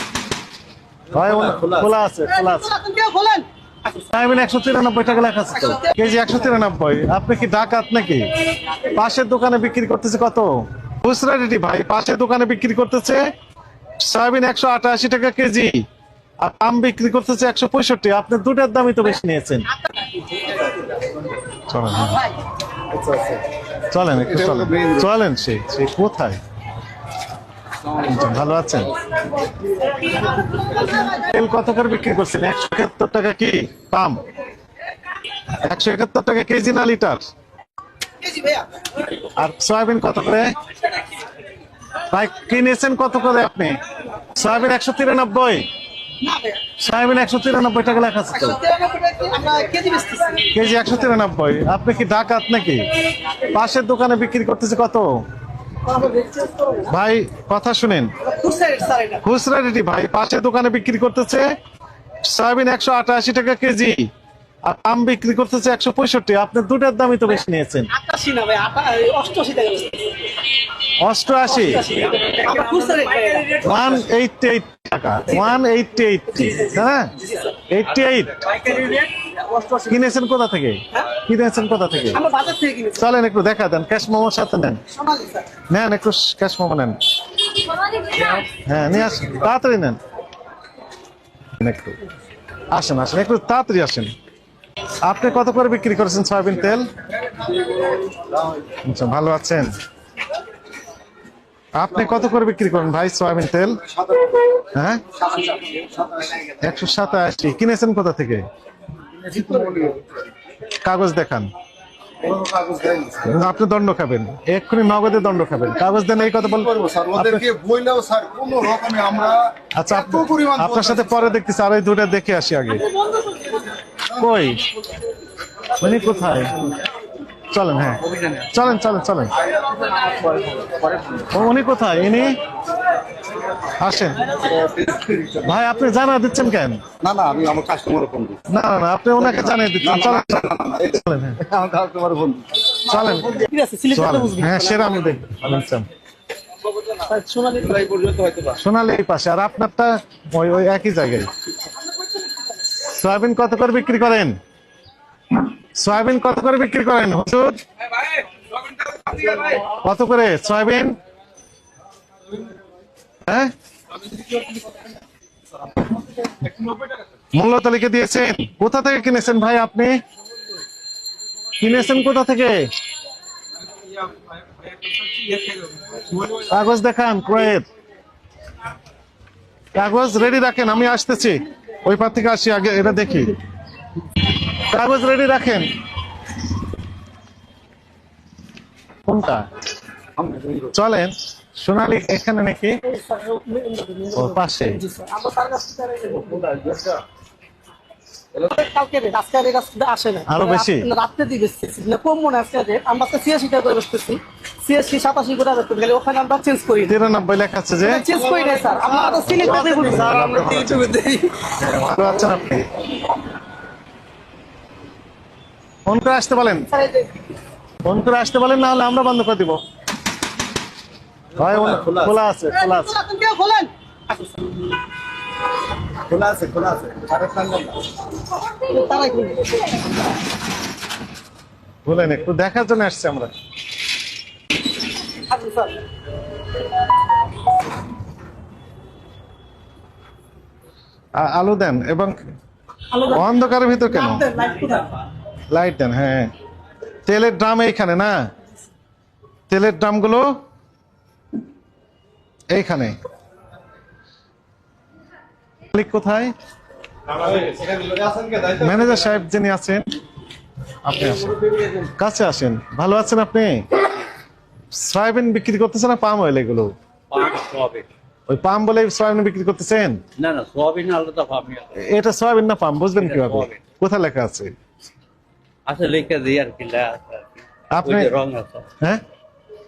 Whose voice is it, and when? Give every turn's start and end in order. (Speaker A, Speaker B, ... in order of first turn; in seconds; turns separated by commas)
Speaker A: 1.1-2.7, Speaker B: 1.1-1.9, Speaker C: 2.3-3.5, Speaker A: 3.9-13.2, Speaker A: 14.0-15.8, Speaker A: 16.4-19.7, Speaker A: 21.6-22.3, Speaker B: 22.9-23.4, Speaker A: 23.9-26.4, Speaker B: 24.2-25.1, Speaker B: 27.9-28.2, Speaker A: 28.0-28.9, Speaker A: 30.8-34.2, Speaker A: 35.5-37.3, Speaker C: 38.2-38.7, Speaker A: 39.2-40.5, Speaker A: 42.1-43.8, Speaker A: 44.3-45.6, Speaker C: 46.2-46.6, Speaker A: 46.8-48.6, Speaker C: 48.4-50.5, Speaker A: 50.5-55.1, Speaker C: 55.9-56.9, Speaker A: 56.8-58.1, Speaker C: 58.2-59.2, Speaker A: 59.2-61.5, Speaker A: 62.2-64.1, Speaker A: 64.6-67.9, Speaker C: 67.9-70.1, Speaker A: 71.0-71.9, Speaker C: 71.5-73.5, Speaker A: 73.5-77.2, Speaker A: 77.7-78.5, Speaker C: 78.4-79.9, Speaker A: 79.8-82.2, Speaker C: 82.1-83.0, Speaker A: 83.0-84.8, Speaker C: 85.0-85.5, Speaker A: 85.7-87.0, Speaker A: 88.4-90.0, Speaker A: 91.6-92.0, Speaker A: 92.7-94.1, Speaker A: 95.0-96.9, Speaker A: 98.8-99.8, Speaker A: 101.7-103.8, Speaker B: 103.9-104.5, Speaker A: 104.7-105.1, Speaker B: 105.2-106.6, Speaker A: 106.6-108.4, Speaker B: 109.2-110.1, Speaker A: 110.8-111.5, Speaker B: 112.2-113.4, Speaker A: 113.2-117.5, Speaker B: 116.6-121.4, Speaker A: 119.7-122.9, Speaker A: 124.1-124.6, Speaker A: 125.8-126.7, Speaker A: 127.5-129.3, Speaker D: 128.0-128.5, Speaker B: 130.8-131.2, Speaker A: 131.2-132.4, Speaker A: 133.8-134.4, Speaker B: 134.5-135.4, Speaker A: 135.4-136.8, Speaker B: 137.0-138.4, Speaker A: 138.5-141.4, Speaker B: 139.2-142.7, Speaker A: 142.8-145.9, Speaker C: 143.4-144.9, Speaker B: 146.7-147.1, Speaker C: 147.1-147.8, Speaker B: 147.6-148.6, Speaker A: 148.5-151.3, Speaker A: 152.7-154.4, Speaker A: 155.8-157.6, Speaker B: 158.8-159.6, Speaker A: 159.6-161.0, Speaker A: 163.2-163.5, Speaker B: 164.2-164.6, Speaker B: 166.4-167.0, Speaker A: 167.3-170.0, Speaker A: 171.6-172.7, Speaker B: 174.3-176.3, Speaker A: 176.3-177.7, Speaker A: 179.7-183.4, Speaker A: 184.4-185.7, Speaker A: 189.1-189.4, Speaker B: 190.2-190.7, Speaker A: 190.7-192.8, Speaker C: 192.8-196.3, Speaker A: 194.1-194.8, Speaker B: 196.6-196.9, Speaker C: 198.5-206.9, Speaker A: 200.2-200.9, Speaker A: 206.8-208.2, Speaker C: 207.9-211.3, Speaker B: 208.1-210.9, Speaker A: 209.1-210.9, Speaker A: 211.6-212.8, Speaker A: 215.8-216.7, Speaker C: 216.7-217.1, Speaker A: 217.8-219.6, Speaker A: 221.3-223.0, Speaker B: 221.4-222.1, Speaker C: 222.6-224.4, Speaker B: 226.1-227.8, Speaker C: 228.6-229.9, Speaker A: 231.8-233.3, Speaker C: 235.2-235.8, Speaker A: 241.2-242.2, Speaker A: 243.0-244.3, Speaker C: 243.9-244.9, Speaker A: 245.5-246.3, Speaker A: 247.1-248.1, Speaker A: 249.5-250.3, Speaker A: 252.5-252.9, Speaker A: 255.7-256.3, Speaker B: 257.2-259.2, Speaker A: 258.6-259.8, Speaker A: 260.8-261.4, Speaker A: 262.0-263.8, Speaker A: 264.7-266.7, Speaker D: 267.1-267.9, Speaker A: 268.3-270.0, Speaker D: 270.2-271.7, Speaker A: 271.7-274.5, Speaker D: 272.9-273.6, Speaker D: 275.6-278.6, Speaker A: 277.7-278.1